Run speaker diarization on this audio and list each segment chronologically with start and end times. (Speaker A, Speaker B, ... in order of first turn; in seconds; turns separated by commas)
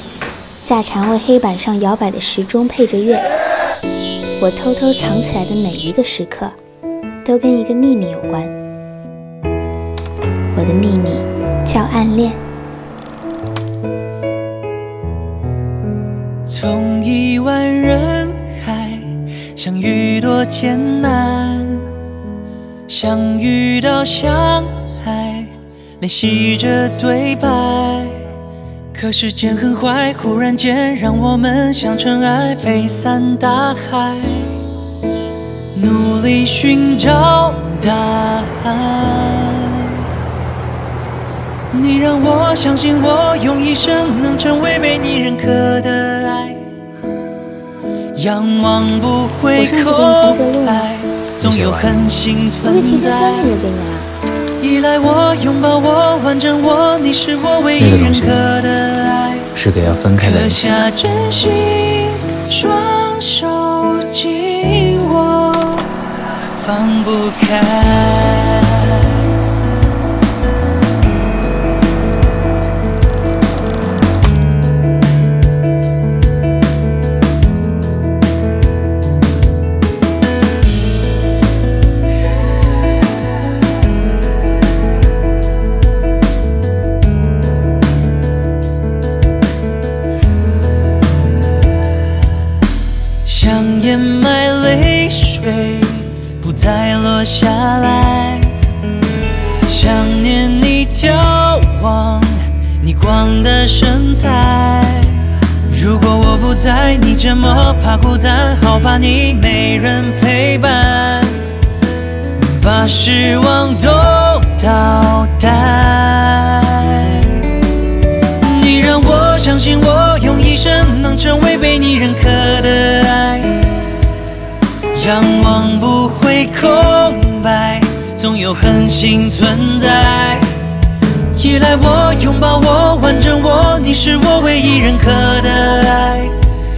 Speaker A: 0.6-3.2, Speaker A: 4.4-6.5, Speaker A: 7.2-8.5, Speaker A: 10.5-12.4, Speaker B: 16.4-21.9, Speaker B: 22.9-28.3, Speaker B: 28.9-34.6, Speaker B: 35.7-40.1, Speaker B: 41.7-46.7, Speaker B: 48.1-53.5, Speaker A: 49.5-51.0, Speaker C: 51.4-51.9, Speaker A: 52.6-54.1, Speaker B: 54.6-59.5, Speaker C: 57.8-58.4, Speaker C: 59.5-60.6, Speaker B: 60.2-69.3, Speaker B: 93.2-98.6, Speaker B: 99.6-111.5, Speaker B: 112.4-117.5, Speaker B: 118.4-123.8, Speaker B: 124.9-130.6, Speaker B: 131.3-136.3